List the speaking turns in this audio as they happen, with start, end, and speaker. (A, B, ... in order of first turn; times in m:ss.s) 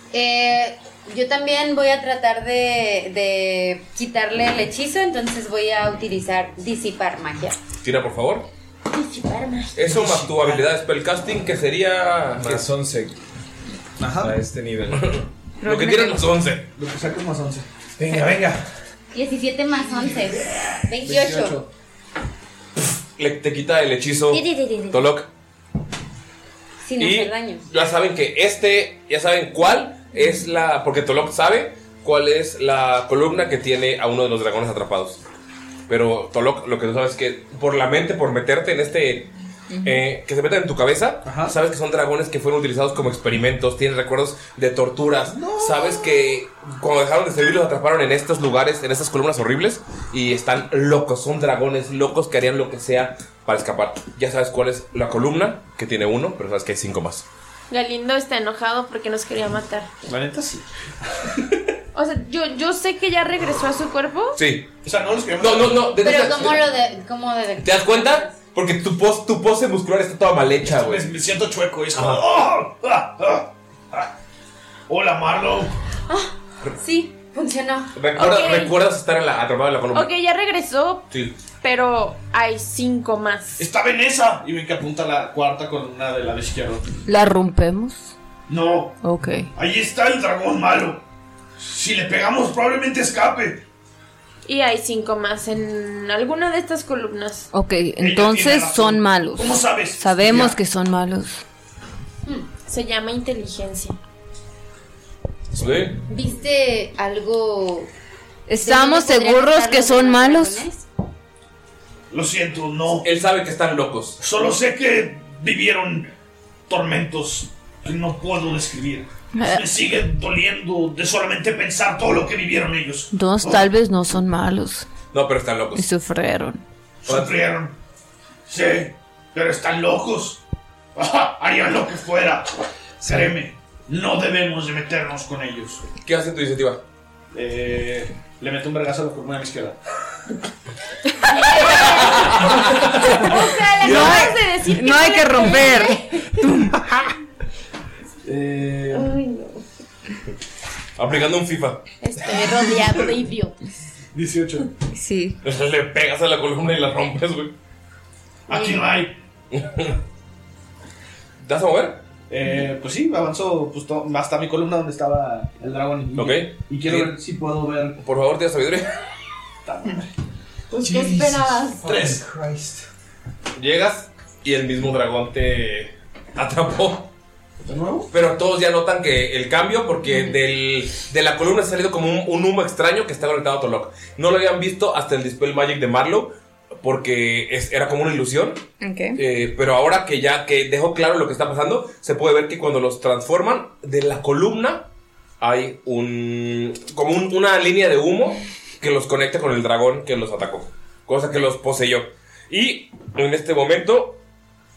0:00.1-0:07.6 A
0:07.8-0:08.5 B
0:08.9-0:09.8 A
0:09.8-0:12.6 B
0:09.8-0:10.6 C
0:12.4-0:13.2 D
0:14.0-0:14.4 C
0:14.2-0:15.2 D
0:14.9-0:16.7 B
0:15.6-0:16.3 E
0:16.8-0:17.7 C
0:18.0-0:18.6 D
0:19.1-0:21.6 A
0:20.6-0:21.7 C
0:23.2-0:25.3 B
0:26.8-0:27.7 A
0:27.0-0:35.2 B
0:35.9-0:39.3 B
0:39.7-0:40.0 E
0:39.8-0:57.3 B
0:41.2-0:41.6 C
0:45.3-0:46.2 C
0:57.7-0:59.9 F
1:00.1-1:01.3 C
1:01.9-1:04.4 F
1:04.4-1:04.7 B
1:04.8-1:05.9 C
1:05.4-1:06.6 B
1:06.0-1:08.3 A
1:07.6-1:11.1 B
1:10.7-1:14.1 C
1:11.9-1:12.2 B
1:14.9-1:15.7 C
1:16.1-1:17.9 A
1:18.0-1:20.1 B
1:18.2-1:18.8 F
1:19.9-1:21.1 F
1:21.1-1:21.4 B
1:21.6-1:23.6 F
1:23.6-1:26.8 C
1:27.1-1:28.1 E
1:28.5-1:29.0 C
1:29.0-1:29.5 E
1:29.6-1:31.0 C
1:31.6-1:33.6 C
1:34.4-1:37.5 F
1:37.5-1:41.4 E
1:38.0-1:40.6 C
1:42.7-1:44.0 F
1:45.6-1:46.0 B
1:46.1-1:47.9 A
1:48.5-1:50.6 E
1:48.6-1:50.8 A
1:52.1-1:53.1 C
1:53.0-1:54.2 B
1:54.2-1:56.1 C
1:56.7-2:03.7 C
1:59.3-1:59.6 E
2:03.1-2:04.9 E
2:05.1-2:05.8 B
2:05.8-2:06.6 E
2:07.0-2:07.8 C
2:07.1-2:07.4 B
2:08.5-2:10.4 C
2:11.0-2:12.5 C
2:13.0-2:13.3 D
2:13.0-2:15.8 C
2:16.0-2:16.8 B
2:17.3-2:19.8 C
2:21.3-2:26.3 F
2:21.8-2:23.3 B
2:23.8-2:27.0 E
2:28.2-2:29.2 C
2:28.9-2:29.6 F
2:31.0-2:31.8 B
2:32.0-2:33.6 F
2:34.1-2:34.7 C
2:34.9-2:35.4 E
2:35.4-2:37.5 B
2:38.5-2:39.2 C
2:38.5-2:38.9 F
2:39.5-2:40.0 B
2:41.4-2:42.0 B
2:42.3-2:48.0 C
2:46.2-2:47.1 B
2:48.0-2:48.9 B
2:49.6-2:50.1 C
2:50.7-2:51.1 C
2:50.8-2:52.9 D
2:50.9-2:51.8 F
2:51.8-2:52.2 C
2:53.6-2:57.1 B
2:57.6-2:58.1 C
2:58.1-3:08.6 B
3:00.1-3:00.4 E
3:08.8-3:09.2 E
3:09.2-3:14.9 B
3:15.4-3:24.2 B